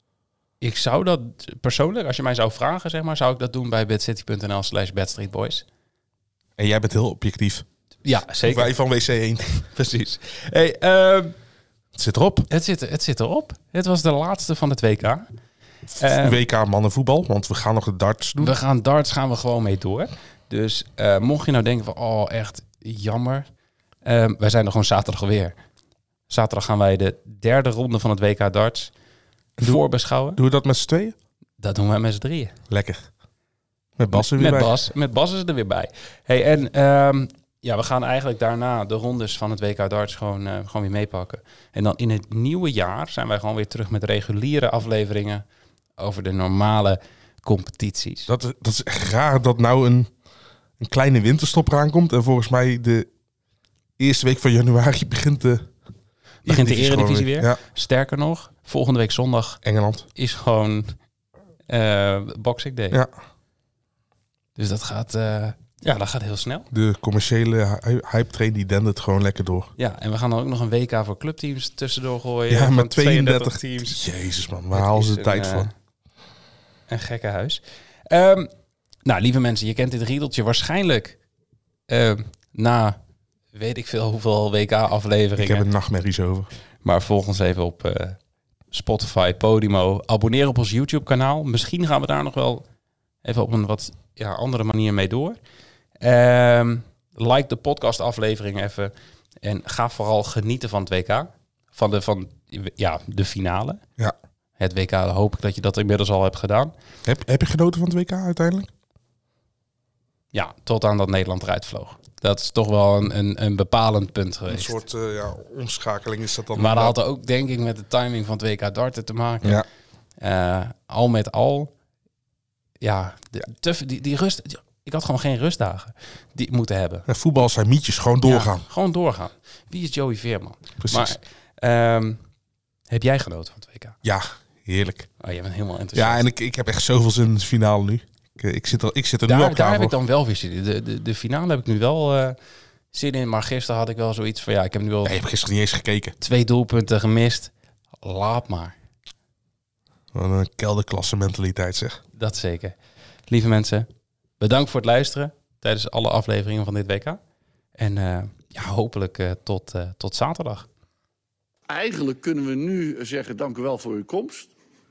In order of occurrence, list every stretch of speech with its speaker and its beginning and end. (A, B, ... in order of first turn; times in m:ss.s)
0:00.6-0:05.6 A
0:06.6-0:07.6 B
0:08.0-0:08.7 A
0:08.5-0:09.6 B
0:09.6-0:11.3 A
0:11.9-0:12.5 B
0:12.5-0:15.2 A
0:16.0-0:16.4 A
0:16.0-0:18.5 B
0:18.4-0:23.5 A
0:24.0-0:25.5 A
0:26.3-0:28.9 A
0:29.6-0:29.8 B
0:29.6-0:30.4 A
0:30.4-0:31.1 B
0:31.6-0:32.6 A
0:32.7-0:33.0 B
0:34.0-0:34.7 B
0:34.1-0:45.4 A
0:46.0-0:48.3 A
0:48.3-0:50.1 B
0:50.8-0:53.1 B
0:54.0-0:55.7 B
0:56.4-0:57.6 B
0:56.4-0:59.6 A
0:59.6-1:00.1 B
1:00.1-1:01.0 A
1:01.7-1:03.0 A
1:04.6-1:06.7 A
1:06.7-1:09.7 B
1:09.8-1:14.0 A
1:12.5-1:15.7 B
1:14.7-1:15.7 A
1:16.9-1:18.5 A
1:19.0-1:21.2 A
1:21.9-1:23.0 A
1:23.5-1:25.7 A
1:25.4-1:26.5 B
1:26.8-1:28.2 A
1:28.7-1:32.6 A
1:33.2-1:35.4 A
1:36.0-1:43.8 A
1:44.6-1:46.7 A
1:47.0-1:48.7 B
1:50.3-1:54.8 A
1:54.5-1:56.9 B
1:56.5-1:59.6 A
2:00.2-2:01.7 A
2:02.8-2:07.1 A
2:07.1-2:08.6 B
2:08.2-2:12.2 A
2:10.8-2:11.2 B
2:12.9-2:14.0 A
2:14.0-2:15.1 B
2:15.2-2:16.2 A
2:15.9-2:19.9 B
2:19.2-2:22.4 A
2:22.9-2:25.2 A
2:25.0-2:26.2 B
2:26.2-2:28.8 A
2:30.1-2:32.0 B
2:32.2-2:32.8 A
2:33.3-2:33.9 A
2:34.4-2:37.2 A
2:37.8-2:40.7 A
2:41.7-2:44.5 C